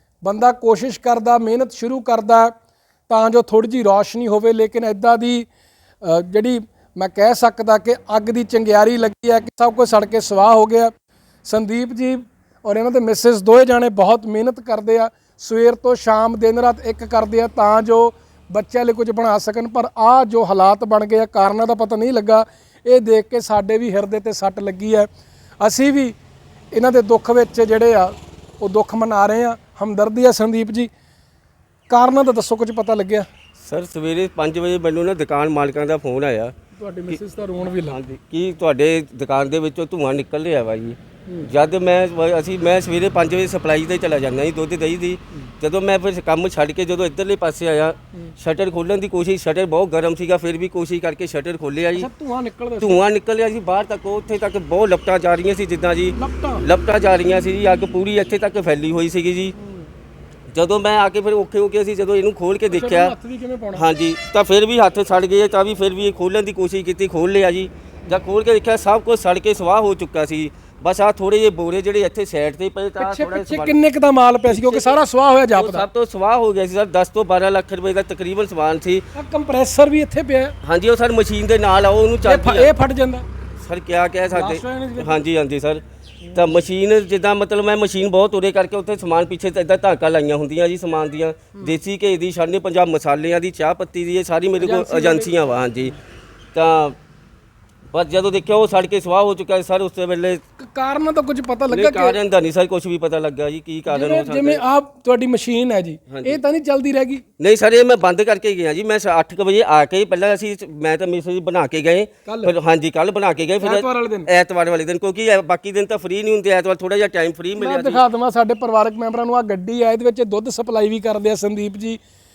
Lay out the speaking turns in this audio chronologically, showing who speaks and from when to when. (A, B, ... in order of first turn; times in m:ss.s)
0:00.2-0:02.5 A
0:03.1-0:05.5 A
0:06.0-0:10.9 A
0:11.4-0:25.1 A
0:25.6-0:26.2 A
0:26.7-0:30.9 A
0:31.9-0:33.2 A
0:33.6-0:36.5 B
0:36.8-0:38.0 A
0:37.8-0:52.1 B
0:51.9-0:53.0 A
0:52.8-0:59.5 B
0:56.2-0:56.6 A
0:59.6-0:59.9 A
1:00.5-1:03.1 B
1:02.7-1:03.8 A
1:03.7-1:13.8 B
1:13.0-1:15.8 A
1:14.5-1:15.0 B
1:15.5-1:19.0 B
1:19.1-1:20.5 A
1:20.6-1:22.7 B
1:22.2-1:23.2 A
1:23.6-1:25.8 B
1:24.3-1:25.2 A
1:26.3-1:36.0 B
1:34.6-1:35.3 A
1:36.5-1:36.9 B
1:37.9-1:40.4 B
1:40.6-1:42.2 A
1:41.7-1:44.6 B
1:43.9-1:47.2 A
1:46.1-1:46.4 B
1:47.4-1:58.0 B
1:52.2-1:52.5 A
1:53.6-1:54.3 A
1:57.6-2:02.0 A